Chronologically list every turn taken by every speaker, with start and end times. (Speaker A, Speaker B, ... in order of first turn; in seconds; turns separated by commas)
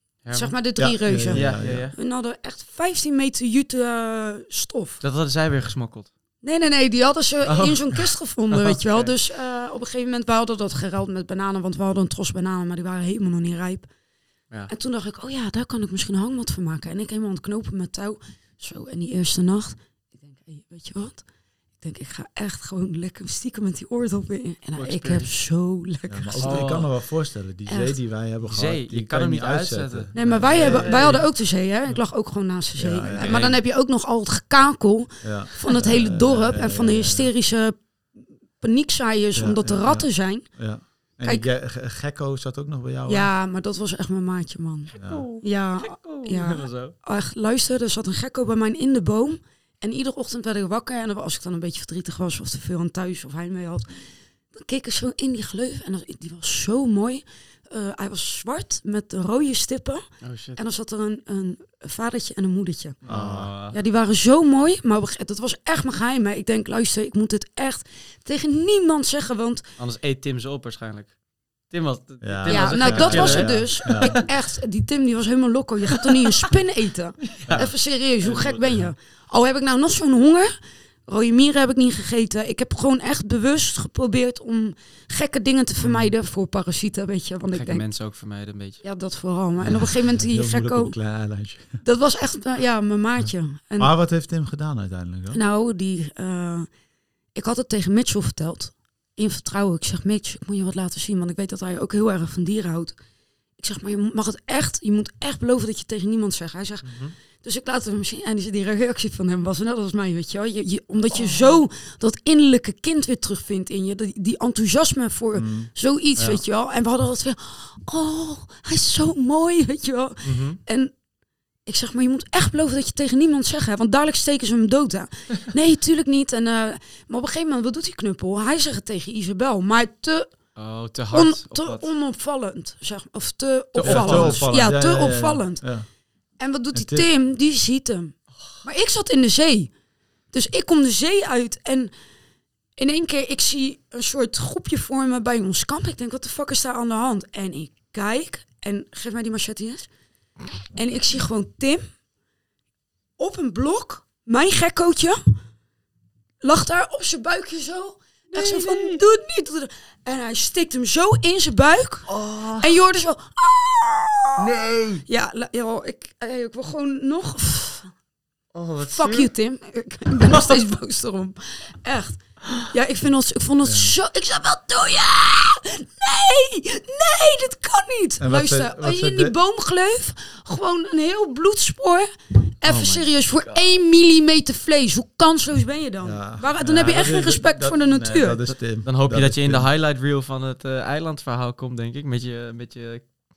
Speaker A: 0.2-0.5, Speaker B: 0.3-5.0, Speaker C: 0.8-1.9, Speaker A: 1.1-1.9, Speaker A: 5.0-6.1, Speaker B: 6.4-13.9, Speaker A: 7.5-9.2, Speaker B: 14.7-21.2, Speaker B: 21.8-26.7, Speaker A: 24.8-25.3, Speaker C: 26.1-31.3, Speaker A: 26.4-26.9, Speaker B: 27.7-28.0, Speaker A: 28.4-31.3, Speaker B: 30.1-37.8, Speaker C: 32.8-33.4, Speaker A: 33.1-33.6, Speaker C: 35.2-37.3, Speaker B: 38.6-40.5, Speaker C: 39.4-43.3, Speaker B: 41.2-41.5, Speaker B: 43.1-53.9, Speaker C: 45.0-45.3, Speaker A: 45.0-46.9, Speaker B: 54.5-60.0, Speaker A: 60.2-60.6, Speaker B: 60.5-63.0, Speaker A: 63.0-63.8, Speaker C: 63.1-63.5, Speaker B: 63.7-69.6, Speaker A: 69.8-71.2, Speaker A: 71.7-74.3, Speaker C: 72.2-74.2, Speaker B: 72.5-80.5, Speaker A: 77.3-78.8, Speaker B: 81.1-87.8, Speaker C: 85.8-86.1, Speaker A: 87.5-88.8, Speaker B: 88.8-91.0, Speaker C: 89.6-91.8, Speaker B: 91.8-93.9, Speaker C: 93.8-95.4, Speaker B: 95.3-96.7, Speaker B: 97.3-103.0, Speaker B: 103.6-120.9, Speaker A: 106.8-107.2, Speaker C: 115.3-115.7, Speaker A: 120.2-120.6, Speaker B: 121.7-130.3, Speaker A: 130.6-131.9, Speaker B: 131.1-135.7, Speaker A: 133.7-134.5, Speaker C: 133.8-135.9, Speaker B: 136.4-139.7, Speaker C: 136.7-137.1, Speaker B: 140.3-141.9, Speaker B: 142.8-149.9, Speaker B: 150.8-151.8, Speaker B: 153.2-155.2, Speaker B: 156.4-164.4, Speaker A: 158.3-159.0, Speaker A: 162.1-162.8, Speaker A: 164.4-165.0, Speaker B: 165.1-167.9, Speaker A: 168.5-169.3, Speaker B: 168.8-182.1, Speaker C: 173.6-174.0, Speaker C: 178.2-179.3, Speaker B: 182.6-188.5, Speaker A: 182.7-183.6, Speaker C: 186.0-189.7, Speaker A: 188.8-193.1